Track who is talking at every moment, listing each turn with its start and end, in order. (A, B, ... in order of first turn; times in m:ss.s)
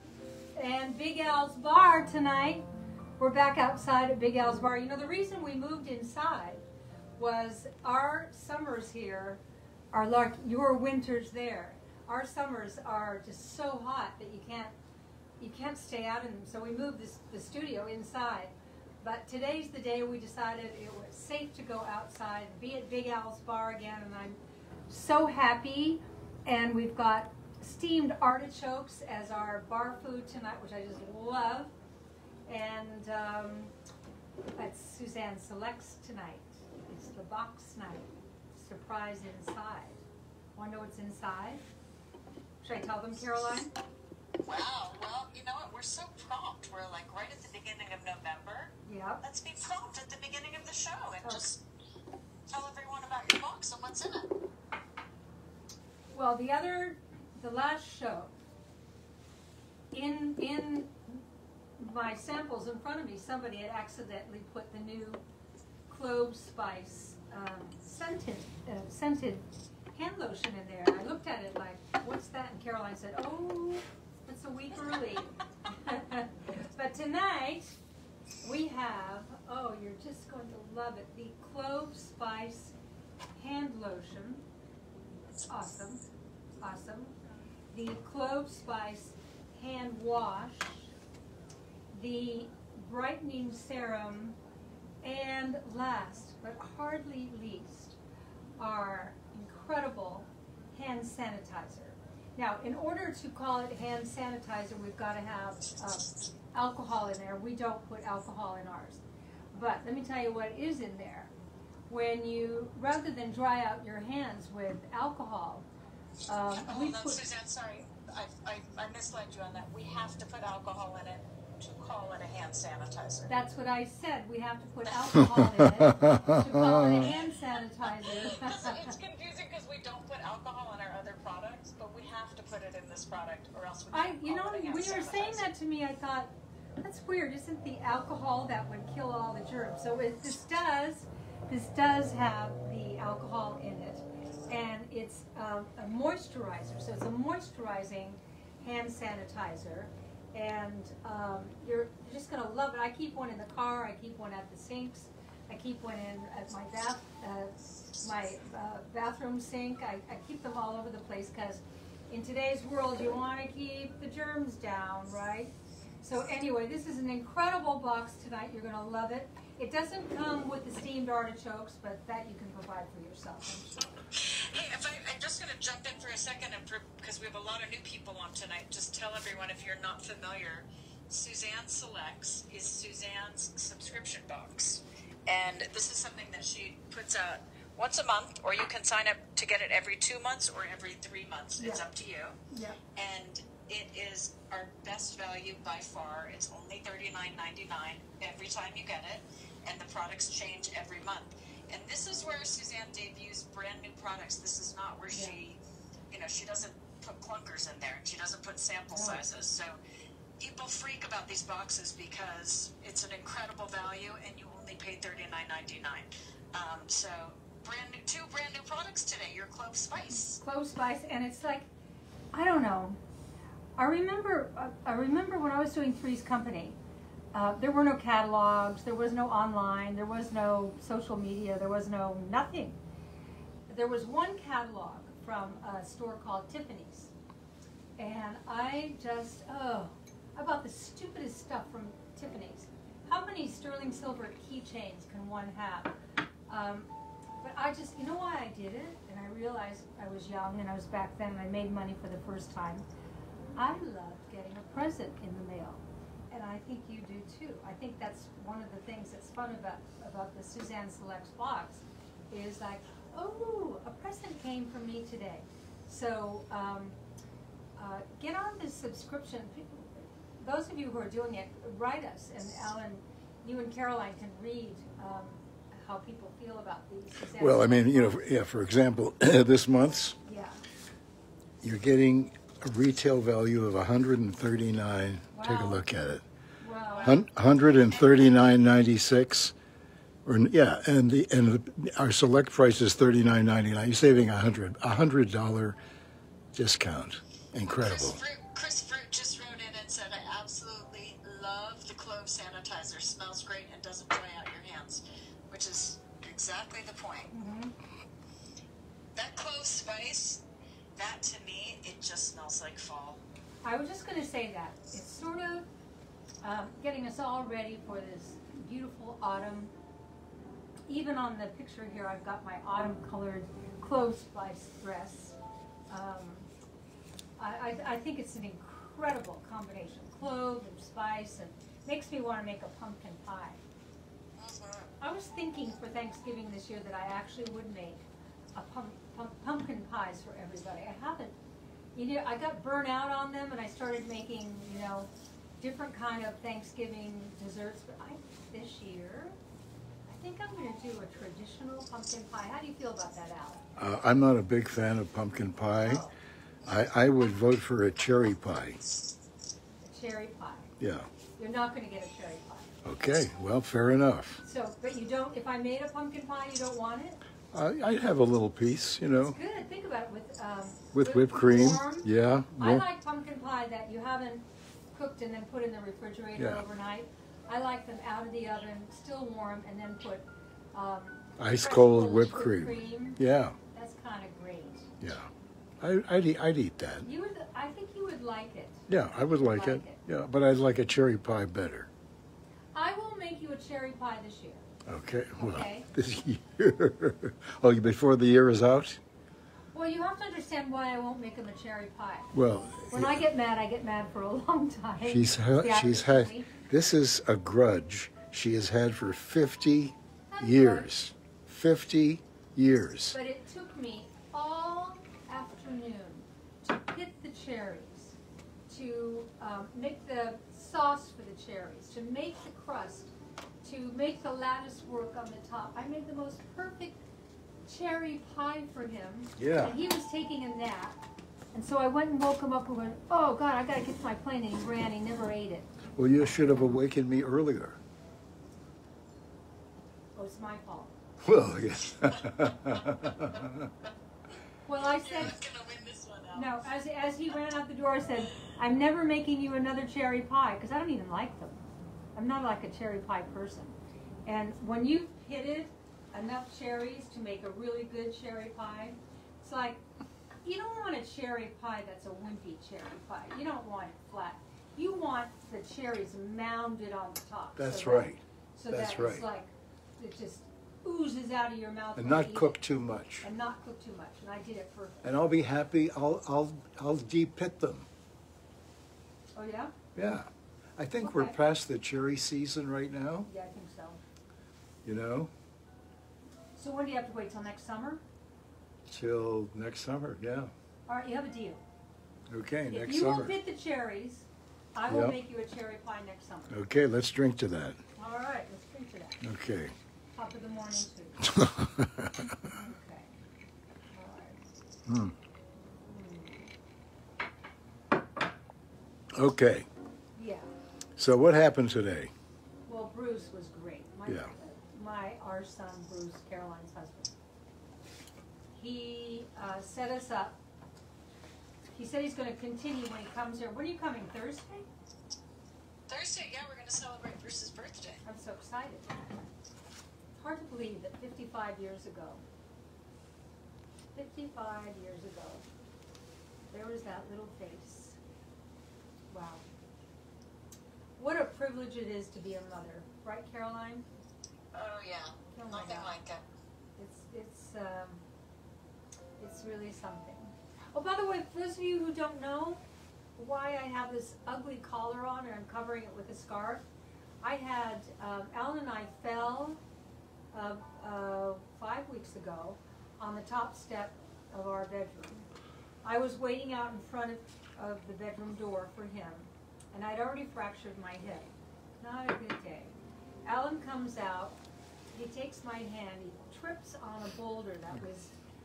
0:00.5-0:02.7 A
0:03.2-0:06.6 A
0:07.2-0:14.7 A
0:15.4-0:31.7 A
0:32.5-0:33.7 A
0:34.6-0:40.0 A
0:40.6-0:41.6 A
0:42.6-0:43.7 A
0:44.4-0:51.6 B
0:48.8-0:49.2 A
0:52.5-0:54.3 B
0:56.1-0:58.3 A
0:59.9-1:01.2 A
1:01.8-1:05.2 A
1:05.9-1:17.8 A
1:18.4-1:22.7 A
1:23.4-1:24.4 A
1:25.5-1:26.0 A
1:26.6-1:27.1 A
1:27.7-1:30.9 A
1:31.9-1:34.4 A
1:35.0-1:38.0 A
1:38.6-1:49.0 A
1:49.5-1:51.3 A
1:51.9-1:55.7 A
1:56.2-1:57.2 A
1:56.5-2:03.3 B
2:03.3-2:08.9 A
2:05.4-2:07.1 C
2:06.9-2:15.5 B
2:13.9-2:53.8 A
2:54.1-3:12.4 B
3:11.6-3:11.9 A
3:12.5-3:12.8 A
3:13.0-3:25.6 B
3:25.1-3:25.4 A
3:26.1-3:29.7 B
3:28.9-3:29.2 A
3:30.4-3:40.4 B
3:40.3-3:41.7 A
3:42.3-3:43.0 A
3:43.8-3:46.8 A
3:47.3-3:52.8 A
3:53.7-3:57.1 A
3:58.0-4:06.0 A
4:06.5-4:12.8 A
4:13.6-4:27.0 A
4:27.8-4:38.2 A
4:37.3-4:40.2 C
4:40.2-4:40.6 A
4:41.6-4:46.2 C
4:45.3-4:45.8 A
4:46.6-4:47.2 A
4:46.9-4:48.3 B
4:47.0-4:49.5 C
4:50.2-4:55.8 C
4:56.5-4:58.2 C
4:57.7-5:07.3 B
5:07.3-5:07.7 A
5:09.1-5:10.4 B
5:11.0-5:13.2 B
5:13.6-5:15.6 A
5:16.4-5:19.7 A
5:20.9-5:25.4 A
5:25.9-5:26.5 A
5:27.4-5:33.6 A
5:34.4-5:34.9 B
5:35.0-5:41.4 A
5:41.9-5:49.4 A
5:50.1-5:53.6 A
5:53.8-5:56.1 C
5:55.8-5:56.1 A
5:56.6-5:58.8 C
5:59.8-6:00.7 A
6:00.8-6:01.1 C
6:01.4-6:02.8 A
6:02.8-6:04.4 C
6:04.4-6:07.2 A
6:07.5-6:09.4 C
6:09.2-6:23.2 A
6:10.9-6:12.8 C
6:16.4-6:16.6 C
6:21.4-6:23.6 C
6:23.7-6:24.9 A
6:25.0-6:25.3 C
6:25.8-6:27.1 C
6:27.0-6:28.9 A
6:28.9-6:31.9 C
6:29.4-6:30.0 A
6:32.7-6:34.7 A
6:34.8-6:39.0 C
6:35.4-6:35.9 A
6:39.7-6:42.3 A
6:42.3-6:43.2 C
6:42.9-6:46.5 A
6:45.0-6:53.2 C
6:50.3-6:50.9 A
6:53.1-6:58.2 A
6:58.7-7:07.0 A
7:07.6-7:11.0 A
7:09.4-7:09.8 C
7:11.5-7:15.7 A
7:16.0-7:17.8 C
7:20.1-7:20.9 A
7:21.2-7:23.7 C
7:24.7-7:25.4 A
7:24.7-7:26.6 B
7:26.3-7:39.8 A
7:40.4-7:52.6 A
7:47.6-7:49.2 C
7:52.0-7:53.2 C
7:53.2-7:55.0 A
7:55.0-7:57.9 C
7:59.3-7:59.7 A
7:59.9-8:03.3 C
8:01.0-8:01.4 A
8:03.2-8:04.0 A
8:04.8-8:05.3 C
8:06.6-8:08.0 A
8:08.9-8:10.5 C
8:10.9-8:11.6 A
8:12.3-8:13.4 C
8:12.7-8:16.6 A
8:14.9-8:15.2 C
8:16.5-8:17.8 C
8:18.0-8:19.2 A
8:19.2-8:19.7 C
8:20.1-8:21.4 A
8:21.2-8:22.3 C
8:22.2-8:23.1 A
8:23.9-8:24.4 A
8:24.8-8:25.1 C
8:25.9-8:26.5 A
8:29.1-8:29.7 C
8:30.2-8:30.5 A
8:31.0-8:32.1 C
8:32.7-8:37.1 A
8:34.0-8:34.3 C
8:38.5-8:40.4 A
8:41.7-8:44.7 A
8:45.9-8:48.0 B
8:48.0-8:48.9 A
8:50.2-8:52.2 A
8:53.9-8:55.4 A
8:56.5-8:58.0 A
8:59.1-8:59.4 A
9:01.0-9:03.8 A
9:04.5-9:06.2 B
9:05.3-9:05.9 A
9:06.8-9:08.0 A
9:09.2-9:12.6 A
9:13.2-9:16.6 A
9:17.2-9:19.6 A
9:20.3-9:25.3 A
9:25.8-9:34.4 A
9:34.9-9:38.1 A